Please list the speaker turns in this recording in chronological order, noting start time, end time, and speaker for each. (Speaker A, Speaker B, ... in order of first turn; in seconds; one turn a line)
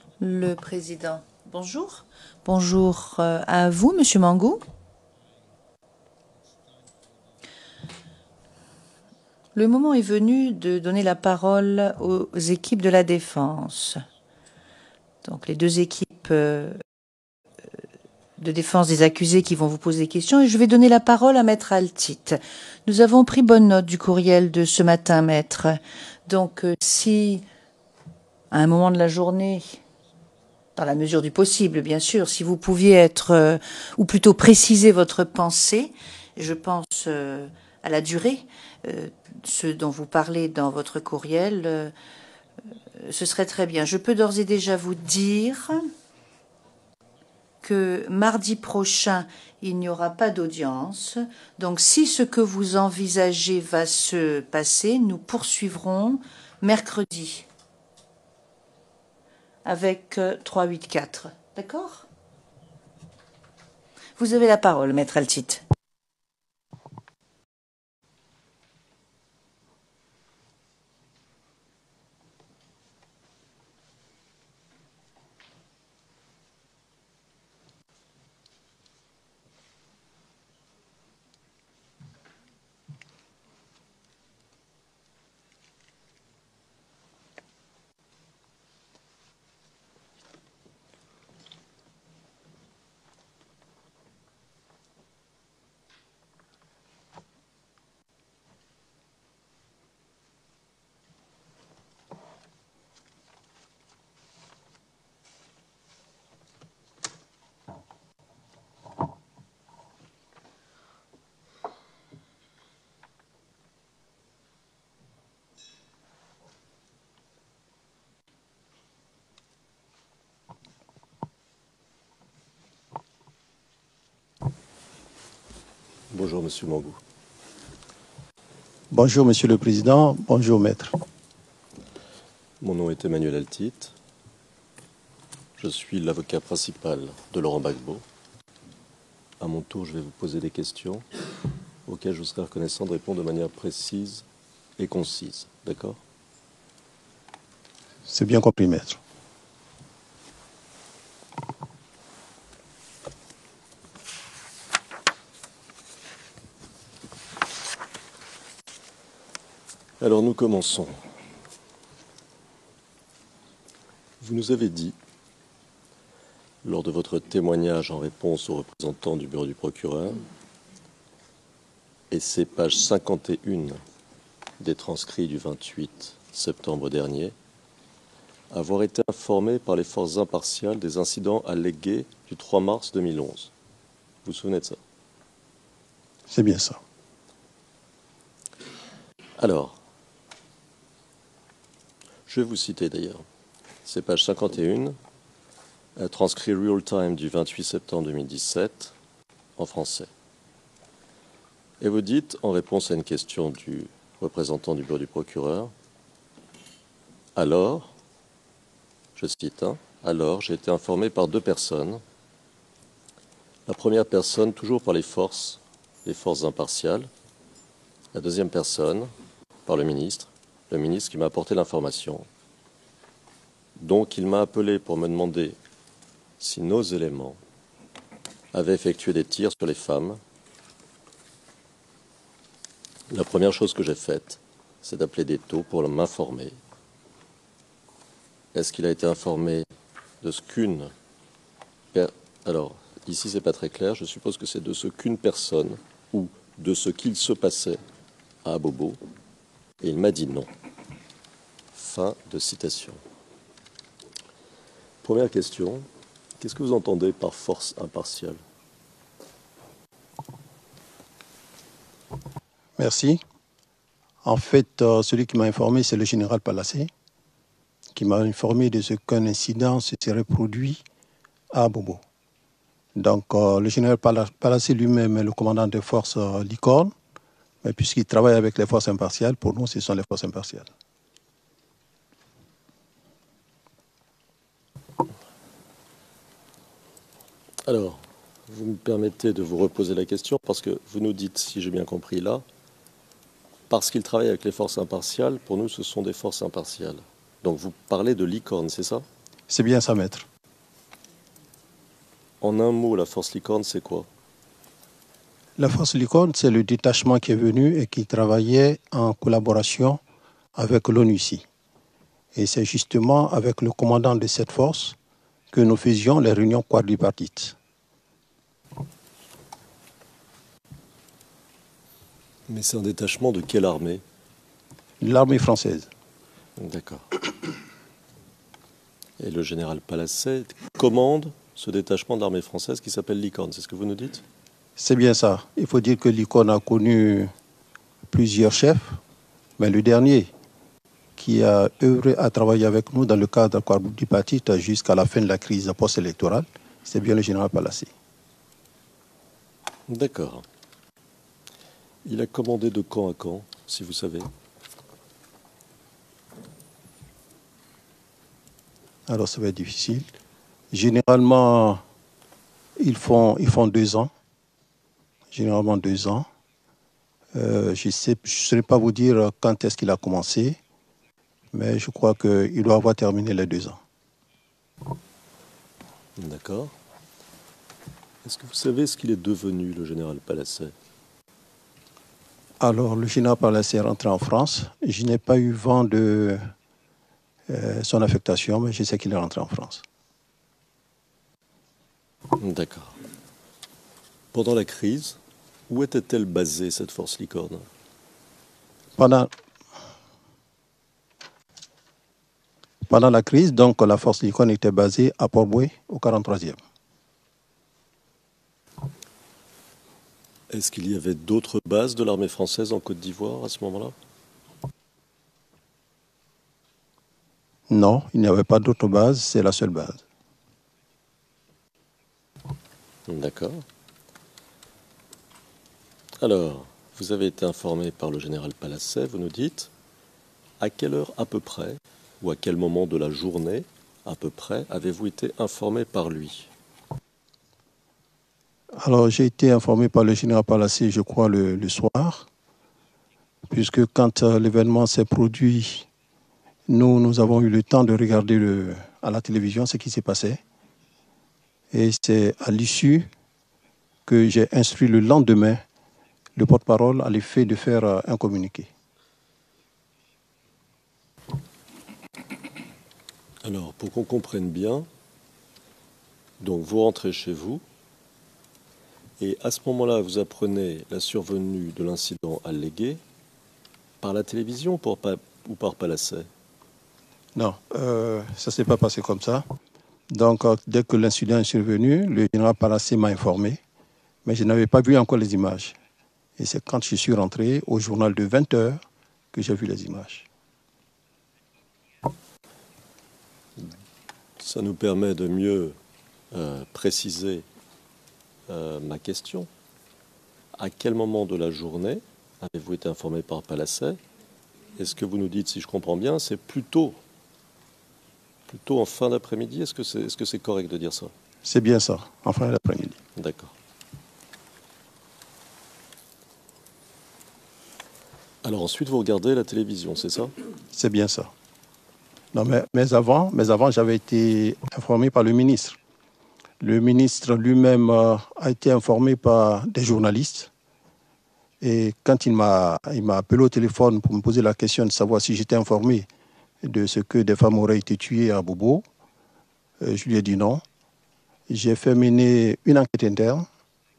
Speaker A: 0.2-4.6
Speaker A: 9.6-14.0
Speaker A: 15.2-16.8
Speaker A: 18.4-27.4
Speaker A: 28.5-29.6
Speaker A: 30.8-41.9
Speaker A: 43.0-45.8
Speaker A: 47.6-57.5
Speaker A: 59.6-62.1
Speaker A: 64.2-65.6
Speaker B: 126.1-127.0
Speaker C: 128.9-130.9
Speaker B: 132.6-133.9
Speaker B: 135.6-138.0
Speaker B: 139.4-141.1
Speaker B: 141.9-144.2
Speaker B: 144.8-146.0
Speaker C: 148.1-149.0
Speaker B: 160.0-161.0
Speaker B: 164.2-165.0
Speaker B: 166.6-170.2
Speaker B: 172.1-173.8
Speaker B: 174.6-177.3
Speaker B: 178.5-183.5
Speaker B: 184.2-184.8
Speaker C: 186.3-186.8
Speaker B: 189.4-189.8
Speaker B: 192.3-193.2
Speaker B: 193.9-195.0
Speaker B: 196.0-198.9
Speaker B: 199.6-200.1
Speaker B: 201.8-205.7
Speaker B: 207.4-207.9
Speaker B: 209.2-212.0
Speaker B: 213.7-217.1
Speaker B: 218.1-219.1
Speaker B: 219.7-222.3
Speaker B: 223.8-225.6
Speaker B: 226.4-227.4
Speaker B: 228.5-230.2
Speaker B: 233.1-236.6
Speaker B: 238.5-239.7
Speaker B: 240.2-240.9
Speaker B: 241.9-247.8
Speaker B: 248.4-249.0
Speaker B: 249.8-250.5
Speaker B: 251.7-253.0
Speaker B: 255.0-255.9
Speaker B: 256.4-258.4
Speaker C: 262.8-263.2
Speaker C: 264.2-266.9
Speaker C: 267.9-270.8
Speaker C: 271.5-272.0
Speaker C: 272.9-276.9
Speaker C: 277.6-280.7
Speaker B: 287.7-292.4
Speaker B: 293.7-299.1
Speaker C: 299.5-300.3
Speaker B: 302.4-304.1
Speaker C: 305.6-310.0
Speaker C: 310.6-311.4
Speaker C: 312.3-315.0
Speaker C: 315.5-317.6
Speaker B: 322.5-324.0
Speaker C: 325.0-325.9
Speaker B: 326.6-327.1
Speaker B: 329.2-334.2
Speaker C: 334.8-337.3
Speaker C: 338.1-339.0
Speaker C: 339.6-340.3
Speaker C: 341.2-347.9
Speaker B: 349.9-350.4
Speaker B: 352.1-354.3
Speaker C: 359.1-360.1
Speaker C: 360.7-361.8
Speaker C: 362.8-364.1
Speaker C: 365.3-366.3
Speaker C: 367.3-370.6
Speaker C: 371.5-373.8
Speaker B: 376.2-376.7
Speaker B: 378.2-380.7
Speaker C: 382.6-386.4
Speaker C: 387.5-389.8
Speaker B: 392.4-392.9
Speaker B: 394.3-397.7
Speaker C: 399.0-399.3
Speaker C: 402.9-406.6
Speaker B: 410.5-413.9
Speaker C: 417.7-420.0
Speaker B: 423.1-423.6
Speaker B: 426.2-429.7
Speaker B: 430.6-436.5
Speaker C: 438.8-442.3
Speaker C: 443.5-445.9
Speaker C: 446.7-450.4
Speaker C: 451.7-453.1
Speaker C: 454.1-455.6
Speaker C: 456.4-458.7
Speaker B: 463.4-464.9
Speaker B: 466.4-467.6
Speaker B: 469.2-473.0
Speaker B: 474.0-476.3
Speaker C: 477.4-479.4
Speaker C: 480.1-483.6
Speaker C: 484.2-485.8
Speaker C: 486.4-488.8
Speaker C: 489.3-490.3
Speaker B: 494.4-495.8
Speaker B: 496.3-497.5
Speaker B: 498.5-499.5
Speaker B: 500.6-504.0
Speaker B: 504.8-507.0
Speaker B: 508.5-511.1
Speaker C: 511.4-513.0
Speaker B: 513.2-513.5
Speaker B: 518.4-520.3
Speaker C: 520.7-521.3
Speaker C: 522.3-525.8
Speaker C: 526.6-530.5
Speaker C: 531.6-536.1
Speaker C: 536.6-538.9
Speaker C: 539.8-540.6
Speaker C: 541.5-543.5